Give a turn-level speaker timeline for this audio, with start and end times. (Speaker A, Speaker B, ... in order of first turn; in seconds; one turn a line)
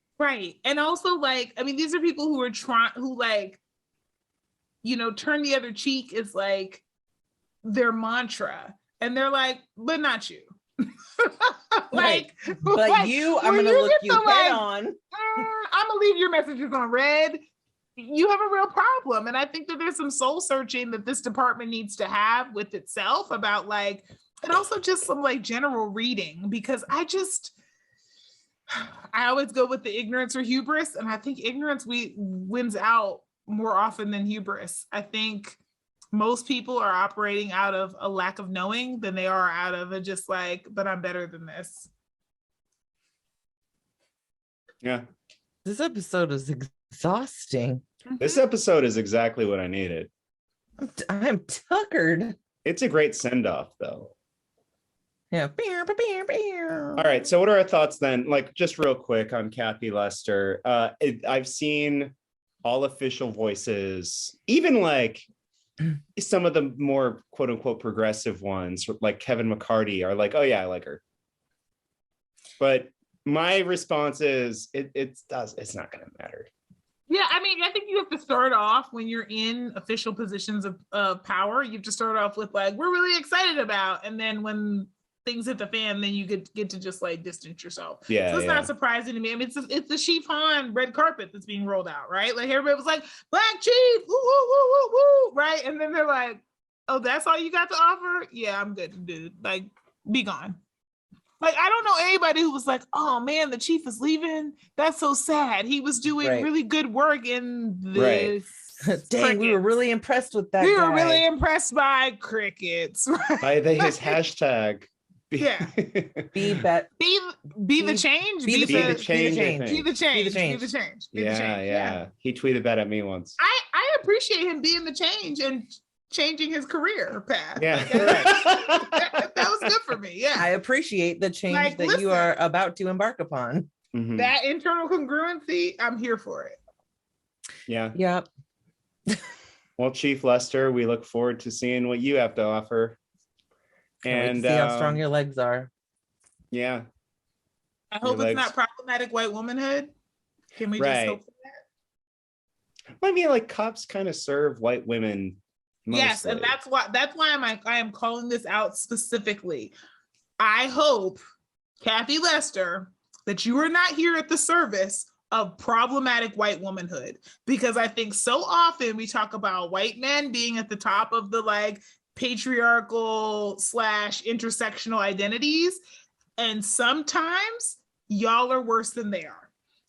Speaker A: 0.2-3.6
Speaker A: 4.8-6.8
Speaker A: 7.6-17.4
Speaker B: 11.9-15.4
Speaker A: 18.0-27.5
Speaker A: 28.7-35.6
Speaker A: 36.1-41.9
Speaker B: 45.6-47.8
Speaker A: 48.1-48.4
Speaker C: 48.2-50.1
Speaker B: 50.8-52.4
Speaker C: 52.6-54.1
Speaker B: 55.3-57.1
Speaker C: 57.0-65.2
Speaker C: 66.2-71.0
Speaker C: 72.6-76.5
Speaker A: 77.1-100.6
Speaker C: 88.1-88.7
Speaker A: 101.4-109.6
Speaker B: 106.2-106.5
Speaker C: 107.9-108.3
Speaker B: 108.8-111.2
Speaker A: 110.6-114.1
Speaker C: 113.4-116.3
Speaker A: 115.4-115.7
Speaker B: 116.3-116.9
Speaker A: 117.0-122.0
Speaker B: 117.8-120.7
Speaker C: 118.7-119.9
Speaker C: 121.1-123.3
Speaker A: 123.4-130.5
Speaker C: 127.6-129.7
Speaker B: 130.3-133.7
Speaker A: 131.5-132.3
Speaker C: 133.9-134.3
Speaker A: 134.2-136.6
Speaker C: 137.7-138.0
Speaker B: 137.9-138.3
Speaker C: 139.8-143.0
Speaker C: 144.0-145.0
Speaker B: 144.0-145.7
Speaker C: 146.5-146.8
Speaker A: 147.9-149.9
Speaker C: 148.0-148.5
Speaker A: 150.6-151.4
Speaker C: 150.8-151.2
Speaker C: 153.0-156.5
Speaker A: 155.9-159.7
Speaker A: 160.4-161.2
Speaker A: 161.8-175.8
Speaker A: 176.4-179.5